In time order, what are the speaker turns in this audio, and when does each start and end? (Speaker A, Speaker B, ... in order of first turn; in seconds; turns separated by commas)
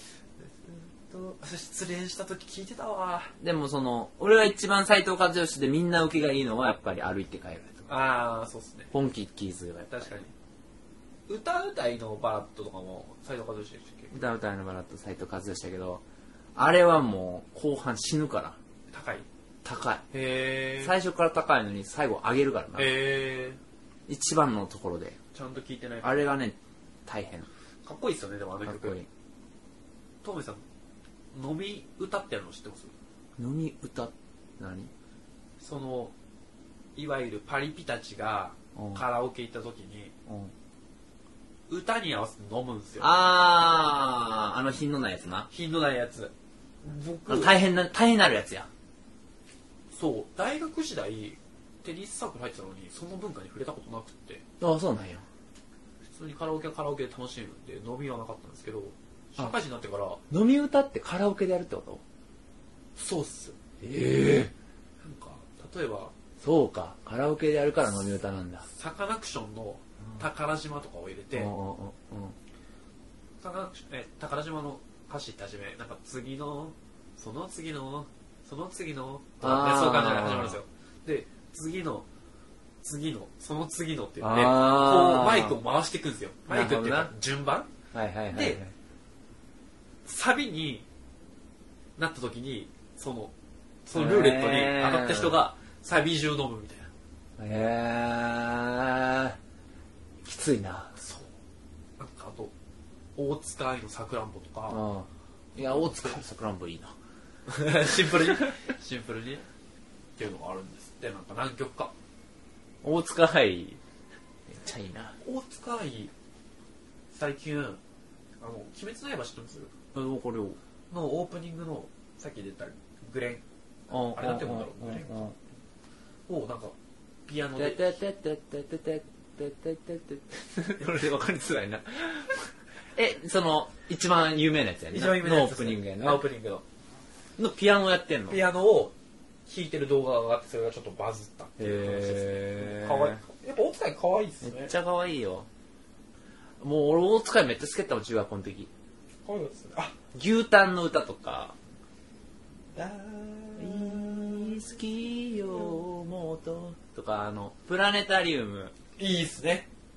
Speaker A: 0.4-3.3, Speaker B: 3.4-7.9, Speaker A: 7.9-8.9, Speaker B: 8.9-10.1, Speaker A: 9.9-10.3, Speaker A: 11.3-14.2, Speaker B: 14.1-16.0, Speaker B: 16.5-18.6, Speaker A: 18.9-19.3, Speaker B: 19.6-20.1, Speaker A: 20.1-20.9, Speaker B: 20.8-23.0, Speaker A: 22.8-23.6, Speaker B: 24.1-25.2, Speaker A: 25.3-26.3, Speaker B: 26.0-27.5, Speaker A: 27.8-29.0, Speaker B: 28.6-29.1, Speaker A: 30.2-30.6, Speaker A: 31.3-32.9, Speaker B: 33.4-34.9, Speaker A: 35.6-36.1, Speaker A: 37.0-40.1, Speaker B: 38.8-39.0, Speaker B: 40.3-40.5, Speaker A: 41.7-43.1, Speaker B: 43.0-45.5, Speaker A: 45.5-47.5, Speaker B: 47.3-48.7, Speaker A: 49.9-54.4, Speaker B: 54.6-55.2, Speaker A: 56.1-60.2, Speaker B: 60.3-62.0, Speaker A: 63.0-63.6, Speaker B: 63.8-64.5, Speaker A: 65.0-66.1, Speaker B: 66.4-68.7, Speaker A: 68.7-71.5, Speaker B: 71.3-72.4, Speaker A: 73.4-82.0, Speaker B: 79.4-80.6, Speaker A: 82.8-87.7, Speaker B: 84.2-85.6, Speaker B: 86.5-87.1, Speaker B: 87.9-88.7, Speaker A: 88.3-88.6, Speaker A: 90.0-90.8, Speaker A: 92.0-93.3, Speaker A: 93.8-96.9, Speaker B: 93.9-95.4, Speaker B: 97.4-99.4, Speaker B: 100.2-101.0, Speaker A: 101.0-101.3, Speaker A: 102.0-102.5, Speaker A: 103.2-104.8, Speaker B: 104.7-106.9, Speaker A: 105.7-106.1, Speaker A: 107.5-109.5, Speaker A: 110.2-111.9, Speaker B: 112.8-113.8, Speaker B: 114.5-115.2, Speaker A: 115.2-116.1, Speaker A: 117.1-117.8, Speaker A: 118.4-119.7, Speaker B: 119.9-120.6, Speaker A: 120.9-125.3, Speaker B: 123.9-125.3, Speaker A: 126.3-127.9, Speaker B: 127.5-136.2, Speaker A: 134.9-136.6, Speaker B: 137.4-138.4, Speaker A: 138.3-138.9, Speaker A: 139.4-144.7, Speaker B: 141.6-143.2, Speaker B: 144.4-145.5, Speaker B: 146.6-148.7, Speaker A: 149.2-150.0, Speaker B: 150.1-151.6, Speaker A: 152.7-154.7, Speaker B: 153.6-158.7, Speaker A: 155.5-155.8, Speaker A: 159.0-159.7